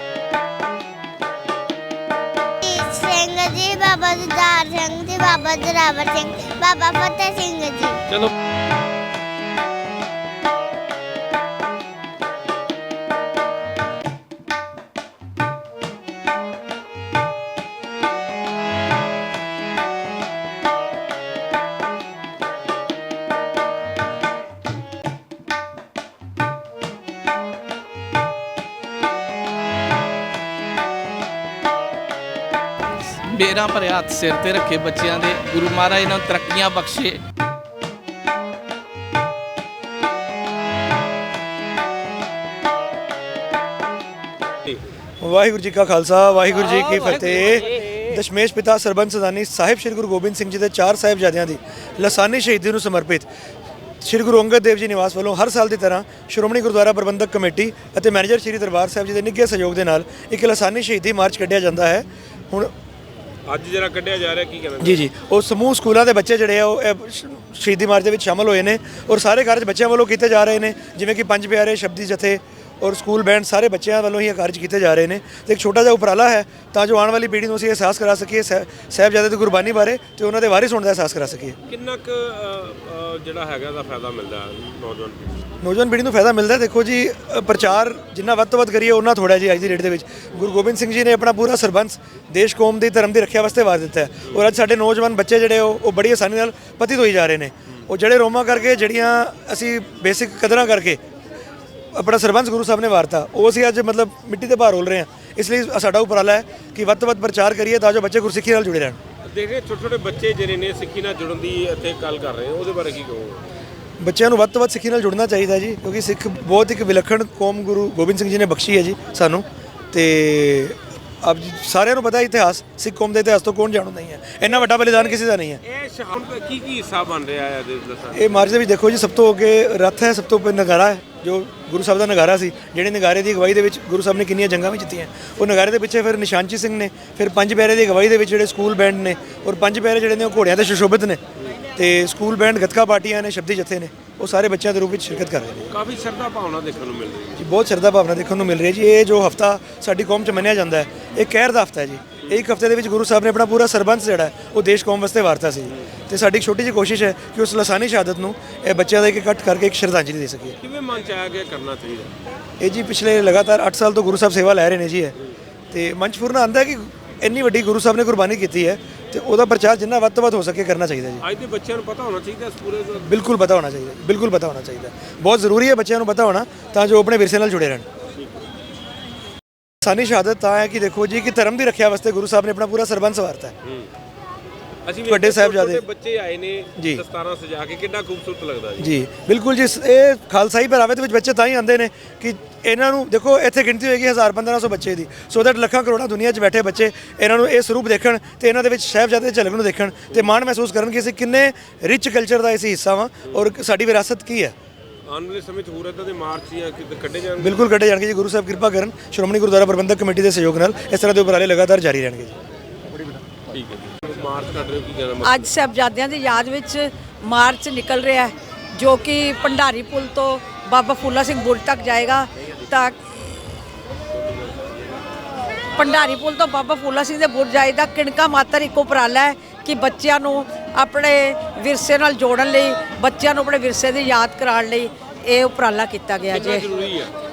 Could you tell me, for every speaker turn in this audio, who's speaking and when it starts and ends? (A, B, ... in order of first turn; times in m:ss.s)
0:02.6-0:08.0 A
0:32.9-0:37.2 B
0:45.2-0:53.3 C
0:46.9-0:47.7 D
0:54.0-1:02.7 C
1:03.5-1:05.0 D
1:04.8-1:21.6 C
1:21.7-1:25.5 D
1:25.6-1:41.0 C
1:41.9-1:49.0 C
1:49.2-1:53.4 D
1:54.0-2:05.6 C
2:04.4-2:08.6 D
2:08.2-2:21.2 C
2:21.8-2:25.7 C
2:25.7-2:27.4 D
2:27.4-2:40.6 C
2:32.2-2:32.5 D
2:40.6-2:42.1 D
2:42.6-2:45.2 C
2:45.7-2:51.2 C
2:51.2-2:53.1 D
2:53.0-2:57.9 C
2:59.8-3:03.5 C
3:04.9-3:09.0 D
3:05.1-3:05.8 C
3:06.8-3:07.0 C
3:08.8-3:24.6 C
3:25.1-3:27.7 D
3:27.4-3:32.4 C
3:33.5-3:35.5 D
3:35.2-3:43.4 E
3:45.7-3:56.7 E
3:56.3-3:57.1 D